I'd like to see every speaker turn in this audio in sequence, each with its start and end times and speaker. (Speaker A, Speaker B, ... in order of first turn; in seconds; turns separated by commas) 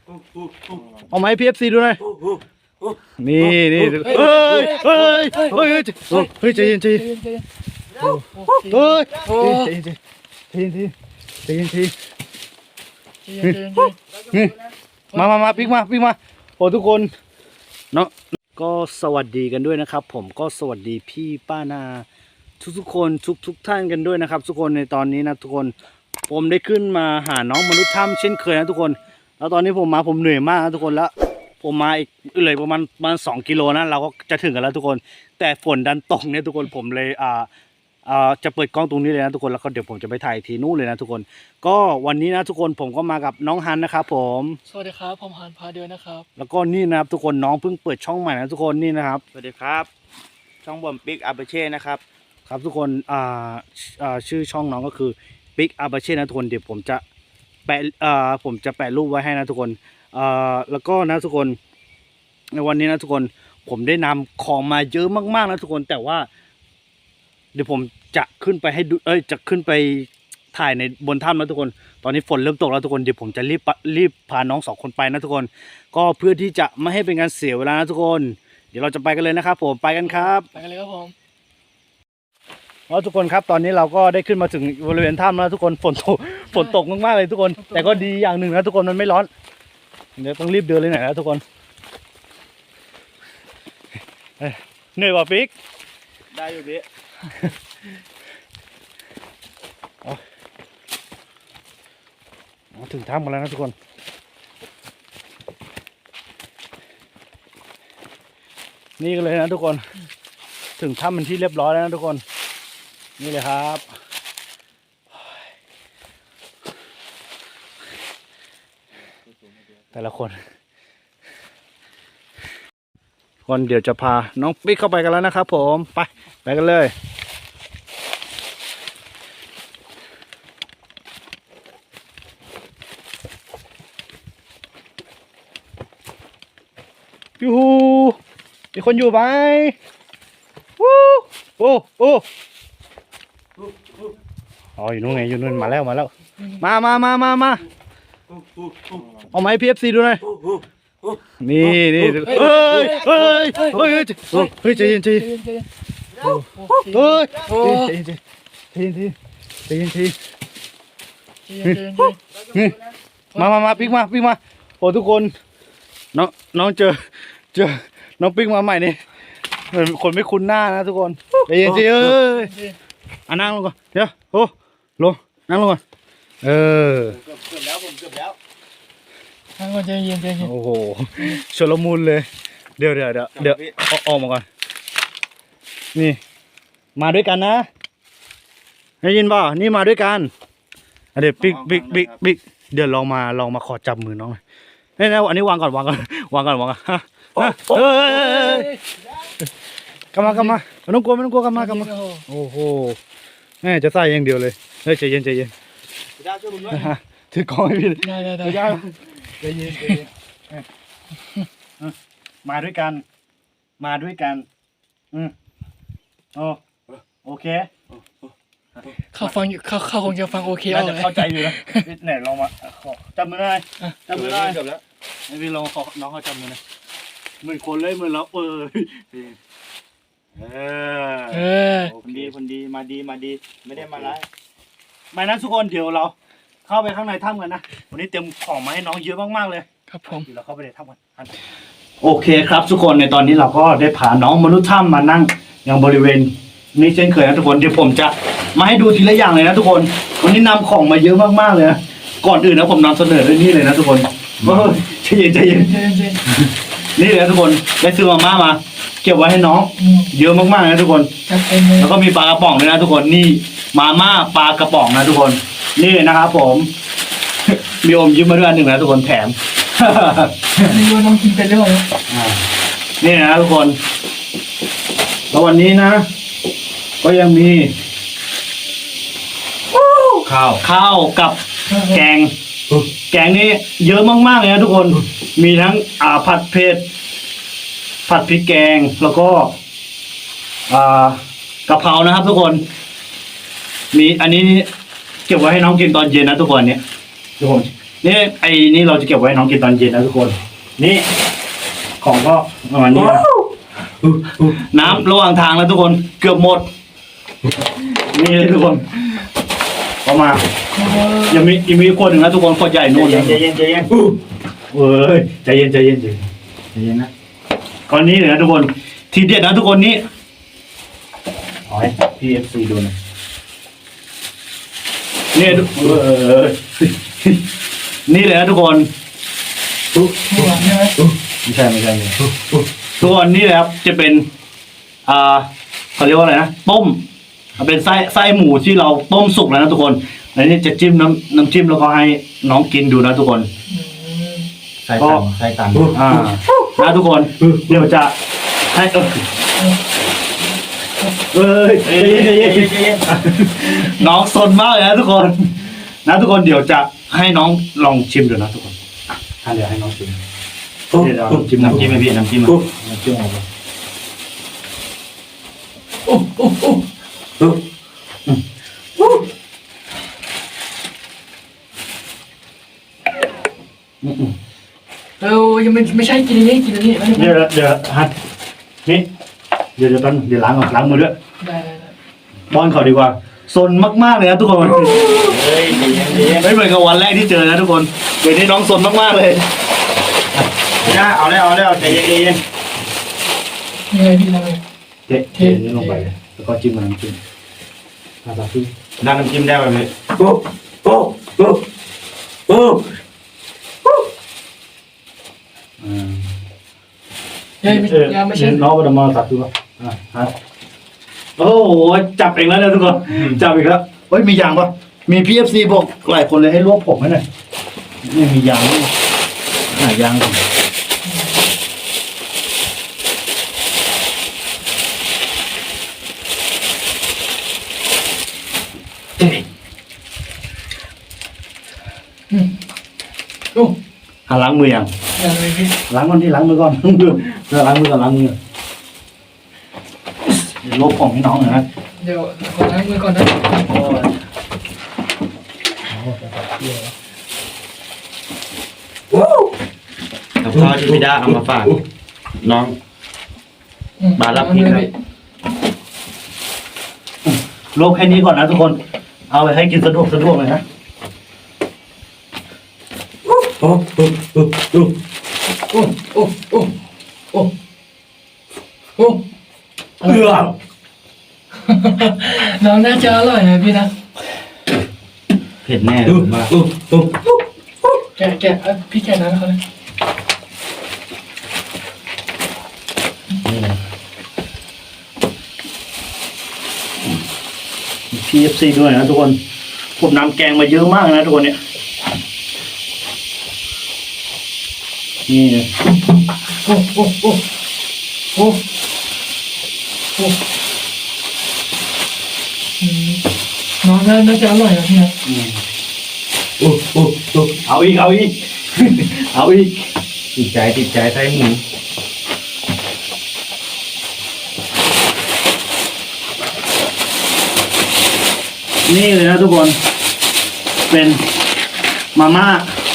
Speaker A: 1.1-2.0, Speaker A: 3.2-7.0, Speaker B: 4.0-7.5, Speaker A: 8.0-10.0, Speaker B: 8.3-9.7, Speaker A: 10.5-10.9, Speaker A: 11.4-11.9, Speaker B: 13.2-14.0, Speaker A: 14.3-14.6, Speaker B: 15.1-15.7, Speaker A: 15.1-17.1, Speaker A: 17.9-22.1, Speaker A: 22.6-25.7, Speaker A: 26.3-37.5, Speaker A: 38.0-44.6, Speaker B: 44.7-46.3, Speaker A: 46.4-49.2, Speaker C: 49.3-49.9, Speaker C: 50.6-52.0, Speaker A: 52.5-57.0, Speaker A: 57.7-61.6, Speaker A: 62.5-66.3, Speaker A: 67.5-80.5, Speaker B: 80.1-81.1, Speaker A: 82.9-89.3, Speaker B: 86.5-86.8, Speaker B: 87.6-88.1, Speaker A: 90.2-91.4, Speaker A: 94.4-95.5, Speaker C: 96.3-96.8, Speaker A: 102.7-103.7, Speaker A: 109.0-109.8, Speaker A: 110.8-112.2, Speaker A: 113.2-113.8, Speaker A: 119.9-120.4, Speaker A: 123.5-126.9, Speaker A: 137.4-138.2, Speaker A: 138.7-139.7, Speaker A: 140.8-142.2, Speaker A: 144.8-147.6, Speaker A: 149.3-150.2, Speaker A: 151.4-155.3, Speaker B: 152.2-155.7, Speaker A: 156.2-158.2, Speaker B: 156.3-157.9, Speaker A: 158.7-159.1, Speaker A: 159.7-160.2, Speaker B: 161.5-162.2, Speaker A: 162.5-162.8, Speaker B: 163.3-163.9, Speaker A: 163.3-165.3, Speaker A: 166.1-169.0, Speaker A: 169.7-172.5, Speaker B: 172.2-172.8, Speaker A: 173.3-175.8, Speaker A: 176.4-177.2, Speaker C: 177.2-178.4, Speaker B: 179.6-180.5, Speaker A: 180.4-182.2, Speaker A: 182.8-184.4, Speaker C: 183.4-183.7, Speaker A: 185.9-186.2, Speaker A: 186.9-187.7, Speaker A: 189.0-190.3, Speaker A: 191.1-194.4, Speaker A: 195.0-198.7, Speaker B: 198.1-198.8, Speaker A: 200.1-203.0, Speaker B: 200.2-200.6, Speaker B: 201.5-202.2, Speaker A: 203.6-205.5, Speaker C: 206.2-206.9, Speaker A: 206.7-210.6, Speaker B: 208.0-208.7, Speaker A: 211.8-213.0, Speaker A: 213.8-214.4, Speaker A: 216.3-216.6, Speaker A: 217.2-217.7, Speaker B: 219.1-221.8, Speaker A: 220.7-224.6, Speaker C: 224.1-224.8, Speaker A: 225.3-226.6, Speaker A: 227.4-229.3, Speaker A: 230.4-232.3, Speaker B: 231.3-231.9, Speaker C: 232.0-234.2, Speaker A: 235.1-236.1, Speaker A: 236.7-241.3, Speaker B: 239.9-240.3, Speaker A: 242.0-255.8, Speaker C: 254.4-254.7, Speaker B: 255.5-256.1, Speaker A: 256.3-261.1, Speaker B: 259.8-260.1, Speaker B: 261.3-261.9, Speaker A: 261.8-266.7, Speaker A: 267.5-270.3, Speaker B: 270.6-271.9, Speaker A: 272.1-272.4, Speaker A: 273.0-273.8, Speaker A: 275.3-276.0, Speaker A: 277.0-277.7, Speaker C: 280.2-280.6, Speaker A: 280.6-282.3, Speaker B: 281.7-282.0, Speaker A: 283.1-286.9, Speaker A: 288.1-289.5, Speaker A: 290.7-292.6, Speaker A: 293.9-294.7, Speaker A: 295.3-296.8, Speaker A: 297.4-301.1, Speaker A: 302.0-303.3, Speaker A: 304.4-306.7, Speaker A: 308.0-309.2, Speaker A: 310.0-310.4, Speaker B: 310.8-311.5, Speaker A: 311.3-313.4, Speaker C: 312.9-314.0, Speaker A: 314.7-316.2, Speaker C: 316.7-317.1, Speaker A: 317.9-320.0, Speaker A: 321.7-322.9, Speaker A: 325.3-327.4, Speaker A: 328.1-328.9, Speaker B: 330.3-331.0, Speaker A: 331.4-332.2, Speaker A: 333.0-334.3, Speaker A: 335.1-337.0, Speaker A: 337.6-343.5, Speaker B: 343.7-344.5, Speaker C: 344.8-346.0, Speaker A: 345.0-345.3, Speaker A: 345.9-348.1, Speaker A: 348.7-349.2, Speaker A: 351.3-360.2, Speaker C: 351.8-353.1, Speaker A: 360.9-362.0, Speaker C: 361.5-362.6, Speaker A: 362.6-363.4, Speaker B: 366.1-366.8, Speaker A: 374.0-374.3, Speaker B: 375.2-377.4, Speaker A: 377.1-378.1, Speaker A: 379.8-381.1, Speaker B: 381.4-381.9, Speaker A: 382.5-385.3, Speaker C: 385.1-386.5, Speaker B: 385.9-386.2, Speaker A: 386.3-389.4, Speaker C: 390.8-392.4, Speaker B: 393.9-394.6, Speaker A: 395.1-397.2, Speaker B: 395.3-396.1, Speaker A: 398.2-398.7, Speaker C: 399.0-399.9, Speaker A: 405.8-406.3, Speaker B: 407.6-408.6, Speaker A: 407.6-410.3, Speaker A: 411.4-417.2, Speaker A: 418.0-418.9, Speaker A: 419.7-420.4, Speaker B: 421.0-421.5, Speaker A: 434.3-434.9, Speaker B: 435.2-435.7, Speaker A: 435.9-438.3, Speaker A: 440.6-441.6, Speaker B: 442.0-443.6, Speaker A: 443.5-444.1, Speaker A: 445.9-446.9, Speaker C: 450.4-451.8, Speaker C: 452.4-452.8, Speaker B: 454.0-454.9, Speaker C: 454.2-454.9, Speaker A: 457.2-460.6, Speaker B: 465.7-466.7, Speaker B: 469.0-469.2, Speaker B: 470.0-470.5, Speaker B: 471.6-473.9, Speaker C: 475.6-476.6, Speaker B: 478.2-479.6, Speaker A: 483.4-483.8, Speaker A: 488.1-489.4, Speaker A: 490.0-491.6, Speaker A: 495.3-495.7, Speaker B: 496.6-497.4, Speaker B: 498.3-498.6, Speaker B: 502.8-503.2, Speaker B: 503.8-505.1, Speaker A: 505.2-505.6, Speaker C: 506.6-507.4, Speaker A: 507.6-509.9, Speaker C: 510.3-511.6, Speaker A: 518.9-519.8, Speaker A: 520.9-521.2, Speaker A: 522.1-522.7